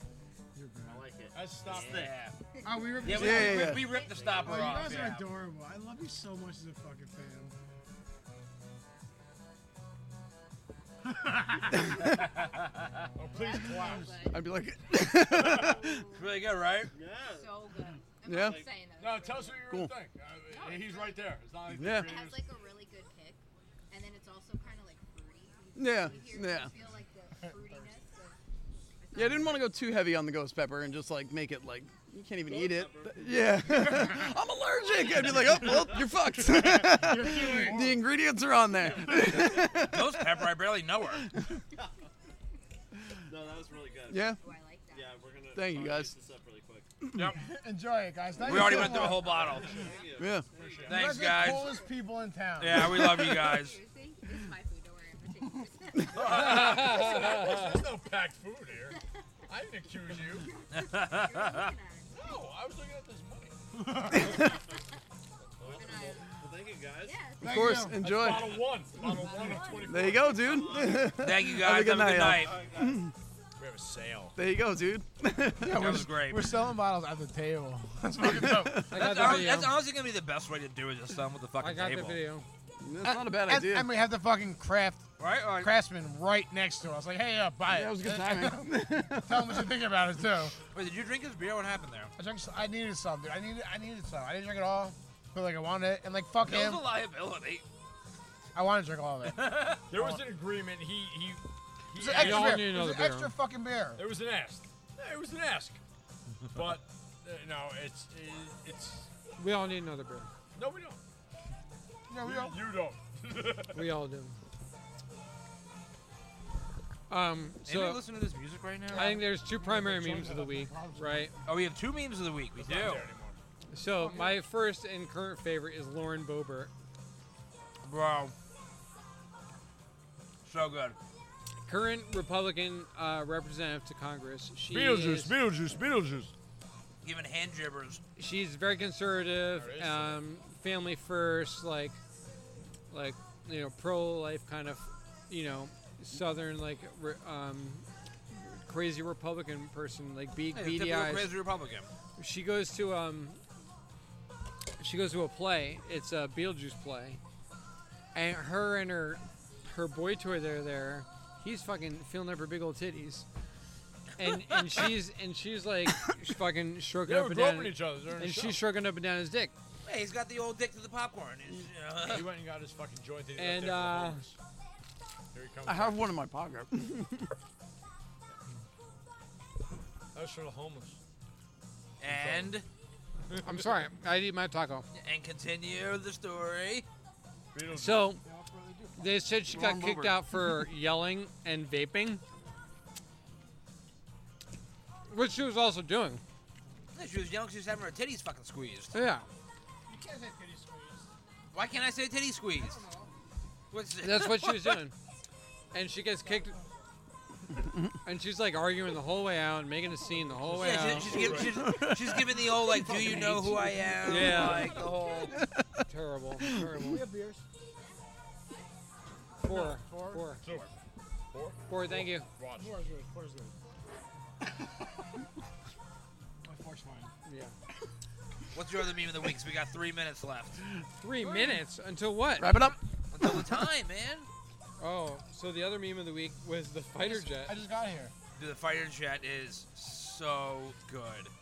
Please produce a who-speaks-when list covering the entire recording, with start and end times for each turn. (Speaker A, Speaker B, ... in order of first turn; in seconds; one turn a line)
Speaker A: 0.5-1.0
Speaker B: 0.8-2.2
Speaker C: 1.3-2.1
Speaker D: 1.6-2.3
Speaker E: 2.5-4.8
Speaker A: 2.6-3.8
Speaker D: 3.0-5.2
Speaker F: 3.1-4.0
Speaker B: 4.0-5.0
Speaker A: 4.4-7.5
Speaker A: 11.1-11.9
Speaker D: 12.0-12.7
Speaker C: 13.2-14.2
Speaker E: 13.3-16.4
Speaker F: 14.3-16.0
Speaker D: 16.1-16.9
Speaker B: 16.9-17.6
Speaker E: 17.2-19.7
Speaker F: 18.2-18.6
Speaker B: 18.3-18.8
Speaker C: 19.0-22.4
Speaker E: 20.5-28.4
Speaker F: 21.7-22.1
Speaker F: 25.8-26.7
Speaker E: 29.0-29.8
Speaker F: 29.1-40.5
Speaker B: 32.4-33.9
Speaker B: 34.8-36.1
Speaker A: 36.4-37.9
Speaker C: 37.5-38.0
Speaker B: 38.8-39.9
Speaker D: 39.8-41.2
Speaker F: 41.2-41.6
Speaker B: 43.2-44.4
Speaker F: 44.1-44.4
Speaker E: 44.3-45.2
Speaker B: 44.9-46.9
Speaker F: 45.5-46.1
Speaker D: 47.1-47.4
Speaker A: 47.4-49.2
Speaker D: 48.4-49.8
Speaker B: 48.4-51.1
Speaker F: 48.6-49.0
Speaker E: 49.1-50.2
Speaker F: 50.2-50.5
Speaker C: 50.5-51.2
Speaker D: 50.9-51.7
Speaker A: 50.9-53.0
Speaker E: 51.5-51.9
Speaker D: 52.6-53.8
Speaker E: 52.8-57.9
Speaker C: 56.1-59.0
Speaker G: 56.3-57.5
Speaker E: 58.9-62.4
Speaker C: 59.5-60.5
Speaker D: 60.7-61.7
Speaker C: 62.1-63.5
Speaker A: 63.7-64.5
Speaker F: 64.1-64.4
Speaker E: 64.2-64.5
Speaker B: 65.6-67.3
Speaker C: 65.6-66.0
Speaker E: 65.7-66.4
Speaker E: 67.0-70.3
Speaker A: 67.4-68.0
Speaker F: 67.4-68.6
Speaker C: 68.0-70.6
Speaker F: 69.9-73.1
Speaker B: 70.4-71.3
Speaker D: 71.2-72.6
Speaker B: 72.2-73.1
Speaker C: 73.6-74.4
Speaker F: 74.4-75.9
Speaker A: 75.6-79.4
Speaker D: 75.6-76.5
Speaker F: 78.3-78.8
Speaker G: 78.9-79.8
Speaker D: 78.9-82.2
Speaker G: 81.6-82.5
Speaker F: 82.8-83.9
Speaker A: 83.0-85.1
Speaker D: 85.2-85.7
Speaker A: 85.6-90.5
Speaker F: 87.7-89.7
Speaker D: 90.7-92.1
Speaker A: 92.2-96.8
Speaker D: 96.4-97.6
Speaker A: 98.5-100.2
Speaker D: 99.3-99.8
Speaker C: 99.9-102.7
Speaker A: 102.0-104.0
Speaker G: 102.1-103.3
Speaker C: 104.0-105.8
Speaker C: 106.5-109.1
Speaker G: 109.4-110.3
Speaker C: 110.5-111.0
Speaker A: 112.1-112.6
Speaker C: 112.2-113.9
Speaker G: 113.7-114.3
Speaker G: 117.1-118.0
Speaker D: 117.7-119.2
Speaker G: 118.9-121.3
Speaker A: 118.9-121.3
Speaker D: 121.5-123.1
Speaker C: 122.6-123.3
Speaker G: 123.7-126.7
Speaker A: 124.0-124.3
Speaker D: 127.8-128.3
Speaker D: 130.4-131.0
Speaker G: 131.7-135.4
Speaker C: 134.7-136.3
Speaker D: 137.0-138.0
Speaker G: 138.2-142.0
Speaker C: 139.5-140.2
Speaker G: 142.9-151.3
Speaker D: 150.5-151.9
Speaker G: 152.2-153.4
Speaker G: 154.8-157.2
Speaker G: 158.1-163.2
Speaker G: 164.2-169.5
Speaker C: 167.0-168.6
Speaker D: 169.8-172.3
Speaker C: 172.0-174.4
Speaker G: 173.3-174.2
Speaker C: 175.3-176.1
Speaker F: 175.7-177.3
Speaker C: 180.1-181.0
Speaker D: 182.0-182.6
Speaker C: 182.0-182.6
Speaker C: 183.3-183.6
Speaker G: 183.4-184.8
Speaker D: 184.9-186.8
Speaker C: 187.5-188.2
Speaker G: 187.7-188.2
Speaker A: 188.2-189.3
Speaker G: 189.0-192.2
Speaker F: 189.5-190.2
Speaker G: 195.1-196.2
Speaker D: 196.9-198.9
Speaker G: 198.9-199.2
Speaker A: 199.9-201.1
Speaker D: 201.5-202.8
Speaker A: 202.6-203.1
Speaker D: 203.7-204.7
Speaker G: 204.0-204.9
Speaker G: 205.7-206.6
Speaker A: 206.2-206.8
Speaker F: 207.6-207.9
Speaker G: 208.0-211.4
Speaker C: 210.5-211.7
Speaker D: 210.6-215.4
Speaker F: 211.4-212.9
Speaker C: 212.8-214.5
Speaker G: 214.0-214.7
Speaker F: 215.3-215.8
Speaker G: 215.9-217.0
Speaker F: 216.4-217.0
Speaker A: 216.9-217.4
Speaker G: 219.4-220.4
Speaker A: 219.4-220.2
Speaker C: 220.4-220.7
Speaker C: 221.3-222.7
Speaker G: 221.7-222.2
Speaker A: 222.6-223.5
Speaker A: 226.4-227.1
Speaker G: 227.2-227.5
Speaker D: 228.5-230.6
Speaker G: 231.0-232.5
Speaker A: 231.2-231.6
Speaker F: 232.4-233.6
Speaker D: 233.1-234.3
Speaker G: 234.8-237.5
Speaker A: 236.9-238.1
Speaker D: 238.4-241.3